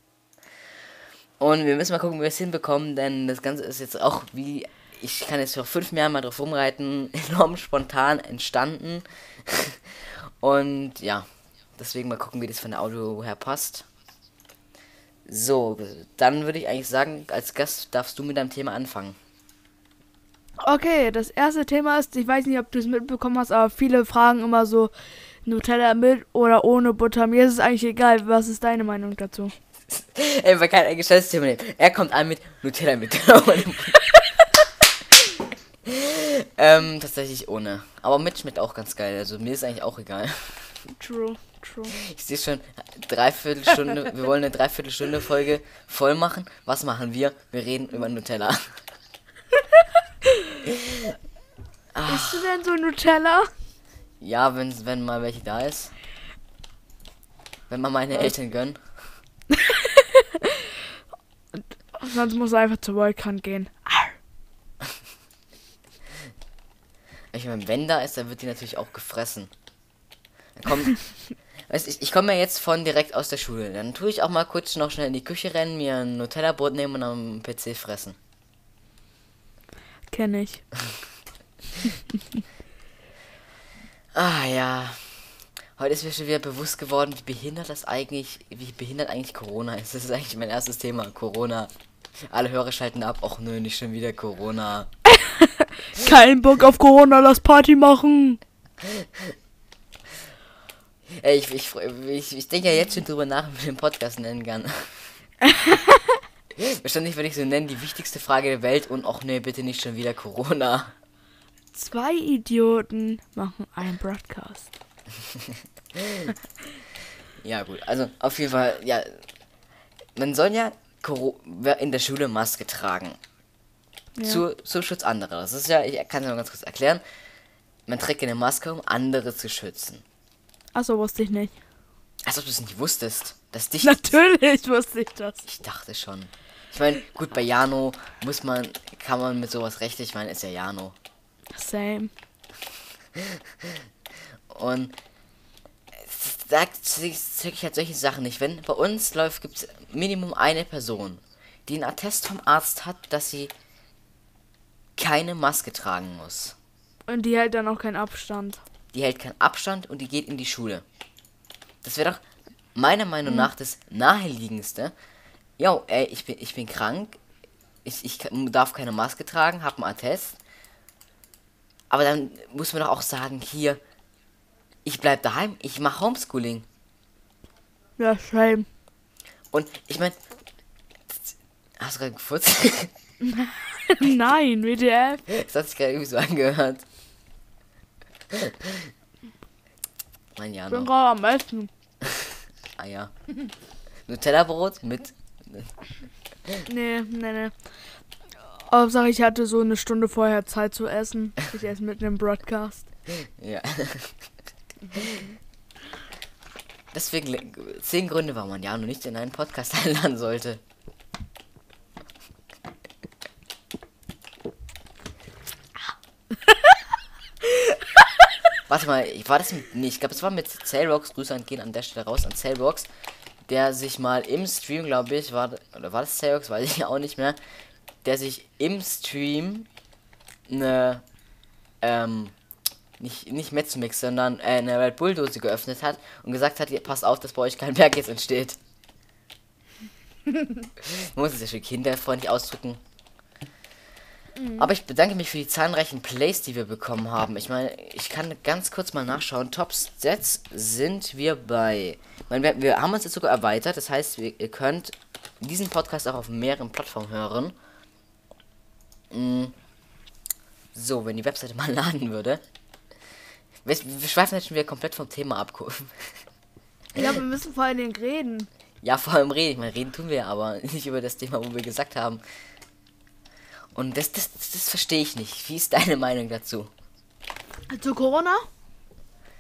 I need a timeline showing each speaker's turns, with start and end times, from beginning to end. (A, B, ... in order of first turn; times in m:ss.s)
0:01.4-0:11.2 A
0:11.8-0:13.8 A
0:15.2-0:19.2 A
0:20.6-0:24.9 B
0:25.4-0:29.5 B
0:29.9-0:34.0 A
0:35.8-0:40.8 A
0:40.9-0:41.9 B
0:41.9-0:48.8 A
0:50.2-0:50.6 B
0:51.9-0:52.5 A
0:52.1-0:53.5 B
0:54.2-0:55.9 A
0:57.7-0:58.8 A
0:59.5-1:00.8 B
1:01.5-1:04.2 B
1:07.3-1:09.5 A
1:10.6-1:11.0 A
1:11.7-1:18.2 A
1:20.1-1:20.6 B
1:24.1-1:25.0 A
1:25.8-1:31.7 A
1:32.3-1:34.9 A
1:35.0-1:38.4 B
1:38.8-1:39.3 A
1:41.2-1:45.1 A
1:45.4-1:46.2 B
1:46.6-1:50.9 A
1:51.7-1:54.7 B
1:55.3-1:56.3 A
1:57.4-1:59.2 A
2:00.2-2:03.2 A
2:04.2-2:04.4 B
2:04.2-2:07.0 A
2:07.9-2:10.0 A
2:10.7-2:11.6 B
2:12.2-2:14.2 A
2:13.8-2:15.4 B
2:15.4-2:21.0 A
2:21.5-2:22.1 B
2:23.1-2:23.8 A
2:24.5-2:24.9 A
2:26.0-2:33.5 A
2:35.0-2:36.6 A
2:37.1-2:38.6 B
2:38.9-2:40.8 A
2:41.8-2:42.2 A
2:42.7-2:44.9 A
2:45.6-2:47.2 A
2:47.8-2:50.4 A
2:51.9-2:53.8 A
2:54.8-2:56.6 A
2:58.0-2:58.7 B
2:59.5-3:00.2 A
3:01.8-3:02.9 A
3:03.2-3:05.2 B
3:05.3-3:06.8 A
3:08.3-3:08.9 A
3:10.4-3:10.9 A
3:10.7-3:11.7 B
3:12.0-3:13.1 A
3:14.1-3:15.7 A
3:16.6-3:17.5 B
3:18.6-3:22.9 B
3:23.1-3:24.1 A
3:24.9-3:25.3 A
3:26.9-3:30.6 A
3:36.5-3:36.8 B
3:37.5-3:37.8 B
3:38.7-3:42.9 A
3:43.4-3:47.4 A
3:48.0-3:49.7 A
3:50.5-3:51.0 A
3:51.8-3:52.3 A
3:53.0-3:58.6 A
4:00.8-4:02.8 A
4:04.4-4:04.7 B
4:04.6-4:17.5 A
4:19.1-4:19.6 A
4:20.7-4:22.4 A
4:23.6-4:26.1 A
4:27.0-4:28.5 B
4:28.8-4:32.2 A
4:33.7-4:36.7 A
4:37.7-4:38.5 B